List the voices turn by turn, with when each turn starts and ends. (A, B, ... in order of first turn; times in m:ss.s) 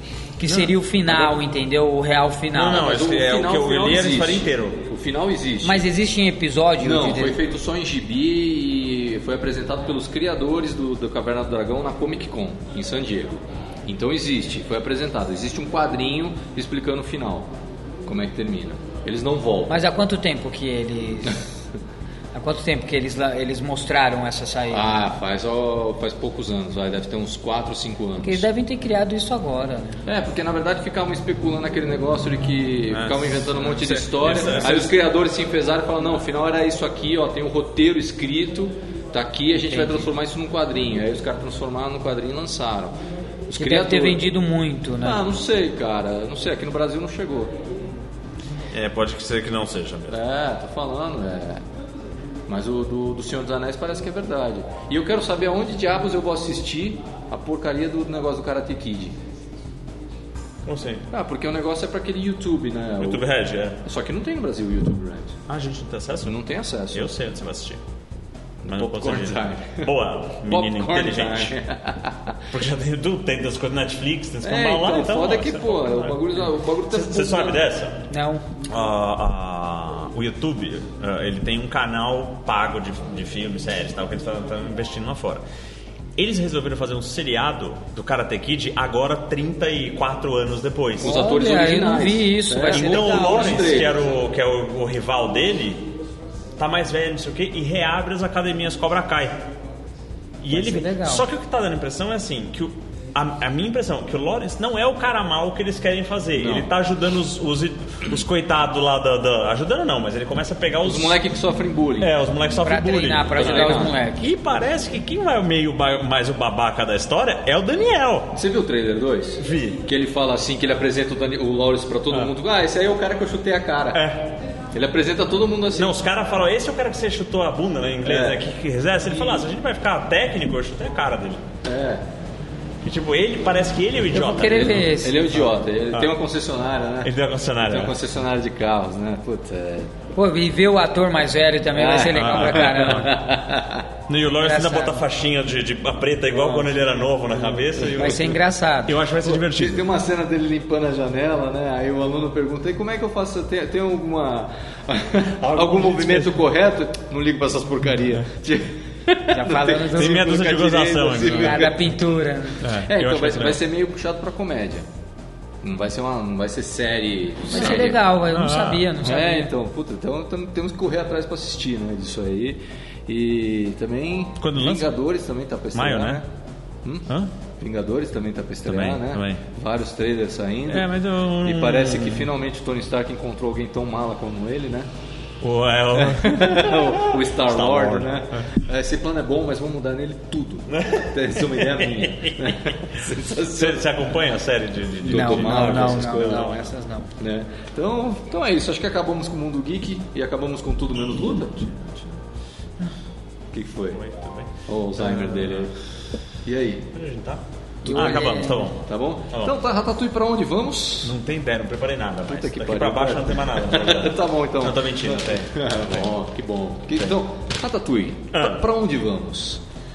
0:00.4-0:02.9 A
0:00.4-0:01.3 B
0:02.5-0:04.8 B
0:02.7-0:05.9 C
0:05.6-0:07.4 A
0:06.8-0:17.5 C
0:18.0-0:19.8 C
0:19.7-0:21.5 A
0:22.3-0:25.0 A
0:24.7-0:28.5 C
0:28.2-0:30.0 A
0:30.0-0:44.3 C
0:32.9-0:34.9 B
0:39.7-0:40.1 A
0:43.5-0:45.2 A
0:45.0-0:47.6 C
0:48.7-0:50.2 B
0:50.1-0:51.6 C
0:52.5-0:59.2 C
1:00.7-1:01.1 B
1:01.1-1:03.3 C
1:03.0-1:03.8 B
1:03.8-1:05.4 C
1:05.5-1:07.8 B
1:06.2-1:07.2 C
1:08.6-1:09.9 C
1:08.7-1:11.6 B
1:10.4-1:12.4 C
1:12.5-1:18.0 B
1:14.4-1:17.7 C
1:18.1-1:18.4 A
1:18.7-1:25.4 B
1:26.2-1:31.2 B
1:31.0-1:34.0 C
1:31.0-1:33.8 A
1:32.7-1:35.9 B
1:36.6-1:39.4 B
1:40.4-1:51.2 B
1:40.5-1:41.3 A
1:46.4-1:46.7 C
1:50.8-1:52.2 C
1:52.0-1:58.4 B
1:52.6-1:54.3 A
1:53.4-1:54.0 C
1:58.3-2:04.0 C
1:59.4-1:59.8 B
2:03.9-2:04.4 B
2:04.7-2:06.0 C
2:05.8-2:11.5 B
2:08.0-2:08.4 C
2:09.2-2:09.4 C
2:11.6-2:12.0 C
2:12.8-2:14.9 B
2:14.1-2:15.4 A
2:14.2-2:19.9 C
2:17.0-2:18.0 B
2:20.2-2:23.2 A
2:21.7-2:23.9 C
2:22.1-2:23.2 B
2:24.1-2:29.9 B
2:24.3-2:25.0 A
2:26.3-2:26.8 C
2:27.3-2:28.2 C
2:27.9-2:29.0 A
2:29.2-2:41.8 C
2:35.4-2:36.4 B
2:39.3-2:40.4 A
2:39.8-2:41.8 B
2:41.2-2:42.7 A
2:42.6-2:43.6 B
2:42.7-2:44.9 C
2:45.6-2:48.0 C
2:47.5-2:49.5 A
2:47.6-2:48.9 B
2:49.0-2:56.3 C
2:54.4-2:54.9 B
2:55.7-2:56.2 B
2:57.6-3:00.9 C
2:58.6-2:59.4 B
3:00.7-3:02.3 B
3:01.4-3:04.9 C
3:05.4-3:08.5 B
3:05.9-3:14.2 C
3:10.7-3:16.7 B
3:15.0-3:16.6 C
3:15.1-3:17.1 A
3:17.2-3:21.7 C
3:21.2-3:22.2 B
3:23.5-3:24.0 C
3:23.9-3:25.7 B
3:24.7-3:25.7 C
3:26.4-3:26.9 C
3:26.9-3:29.6 B
3:27.8-3:31.2 C
3:27.9-3:28.7 A
3:31.0-3:36.2 B
3:32.3-3:39.6 C
3:38.3-3:38.7 B